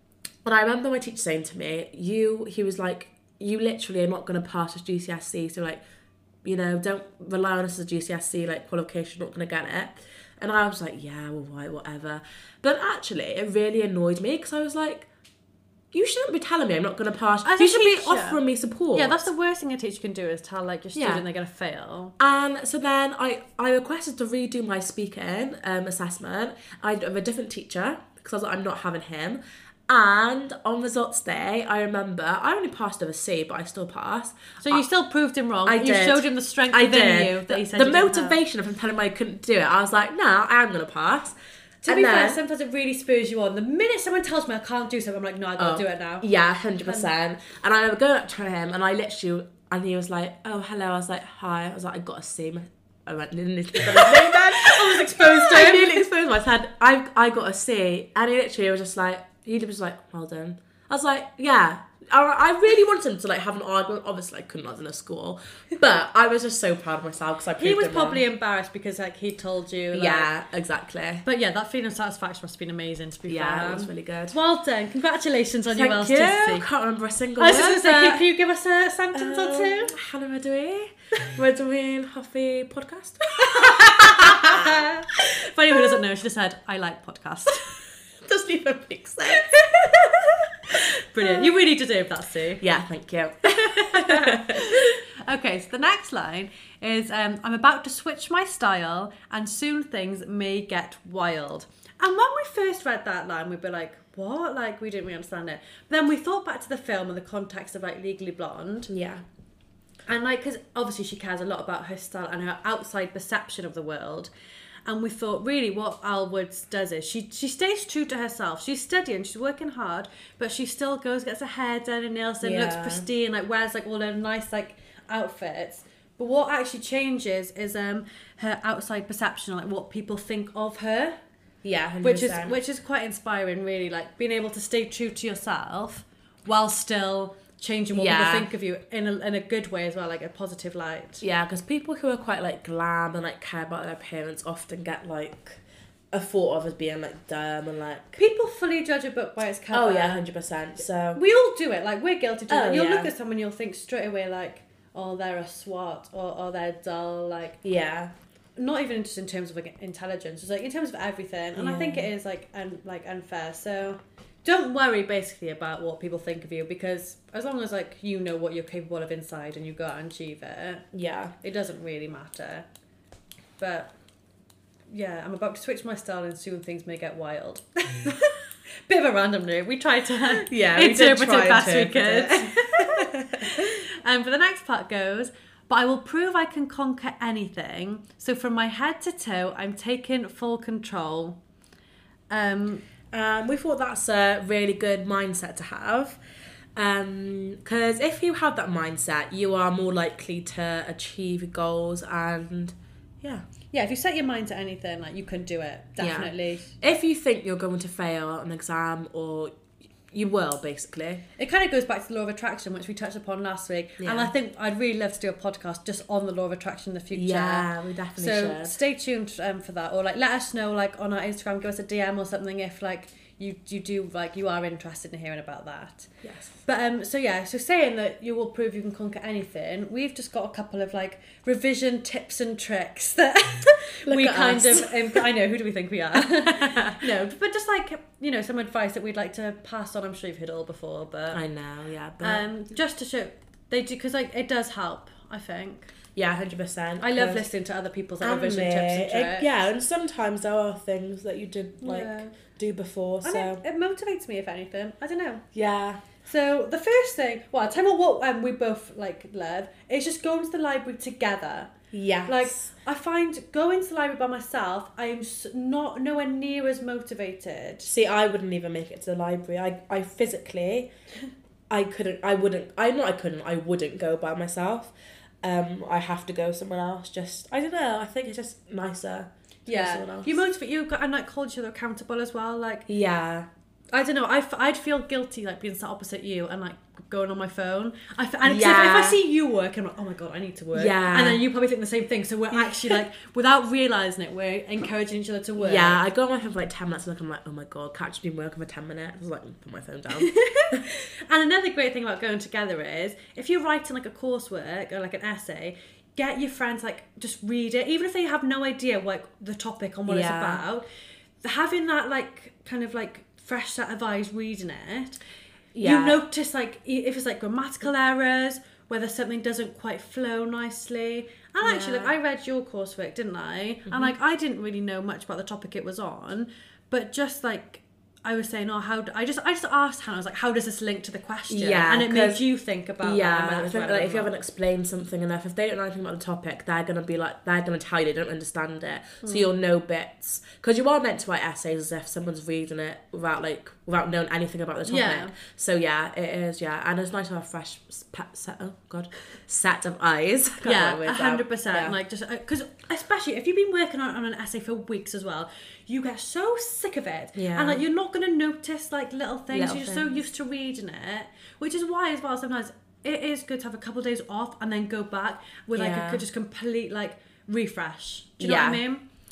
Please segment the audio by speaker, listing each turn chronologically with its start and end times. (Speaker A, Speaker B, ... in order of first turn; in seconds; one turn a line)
Speaker A: 0.4-5.8
Speaker A: 6.4-15.1
Speaker A: 15.9-19.2
Speaker B: 17.4-18.4
Speaker B: 18.9-22.1
Speaker A: 20.9-21.2
Speaker A: 22.2-34.8
Speaker B: 34.6-38.4
Speaker A: 35.6-41.3
Speaker B: 41.8-46.2
Speaker A: 41.9-42.4
Speaker A: 45.6-68.2
Speaker B: 53.9-56.0
Speaker B: 67.6-70.3
Speaker A: 69.9-71.2
Speaker B: 71.2-76.7
Speaker A: 73.3-74.3
Speaker A: 75.7-78.2
Speaker B: 77.4-80.0
Speaker A: 79.1-84.9
Speaker B: 83.5-87.7
Speaker A: 88.2-91.4
Speaker B: 90.9-92.6
Speaker A: 92.6-95.0
Speaker B: 93.5-108.9
Speaker A: 108.9-109.2
Speaker B: 110.1-114.3
Speaker B: 114.8-131.2
Speaker A: 122.4-123.0
Speaker A: 131.6-132.6
Speaker B: 132.0-141.2
Speaker A: 137.9-138.5
Speaker A: 141.2-145.6
Speaker A: 146.1-148.2
Speaker B: 148.2-150.2
Speaker A: 149.7-151.2
Speaker B: 151.1-157.6
Speaker A: 152.5-153.1
Speaker A: 157.6-158.1
Speaker B: 158.6-170.9
Speaker A: 161.6-162.1
Speaker A: 170.9-171.3
Speaker B: 171.4-172.7
Speaker B: 173.6-173.9
Speaker B: 174.9-191.4
Speaker A: 180.3-183.7
Speaker B: 192.3-192.8
Speaker A: 193.1-196.2
Speaker A: 196.8-203.4
Speaker B: 203.7-206.8
Speaker A: 206.0-209.5
Speaker A: 210.1-211.2
Speaker B: 211.4-226.1
Speaker A: 214.0-214.3
Speaker A: 217.1-218.8
Speaker A: 226.2-226.6
Speaker B: 226.7-241.4
Speaker A: 234.1-235.3
Speaker A: 236.4-237.2
Speaker A: 241.3-242.4
Speaker B: 242.2-245.9
Speaker A: 246.1-247.4
Speaker B: 247.0-249.5
Speaker A: 248.2-253.6
Speaker B: 251.8-252.3
Speaker B: 253.2-255.4
Speaker A: 255.5-256.0
Speaker B: 256.2-261.7
Speaker A: 261.9-262.7
Speaker B: 262.3-267.9
Speaker A: 267.9-270.9
Speaker A: 271.7-280.4
Speaker B: 279.7-282.9
Speaker A: 282.9-283.5
Speaker B: 283.9-296.0
Speaker A: 288.4-289.2
Speaker A: 290.7-291.4
Speaker A: 292.6-293.0
Speaker A: 295.6-300.8
Speaker B: 300.1-310.8
Speaker A: 310.1-310.6
Speaker B: 311.4-315.2
Speaker A: 315.7-316.2
Speaker B: 315.8-334.3
Speaker A: 321.6-322.1
Speaker A: 323.9-324.1
Speaker A: 331.5-332.4
Speaker A: 333.0-351.9
Speaker B: 344.9-345.3
Speaker B: 350.6-369.0
Speaker A: 357.4-357.8
Speaker A: 359.5-360.1
Speaker A: 365.7-366.2
Speaker A: 368.4-368.8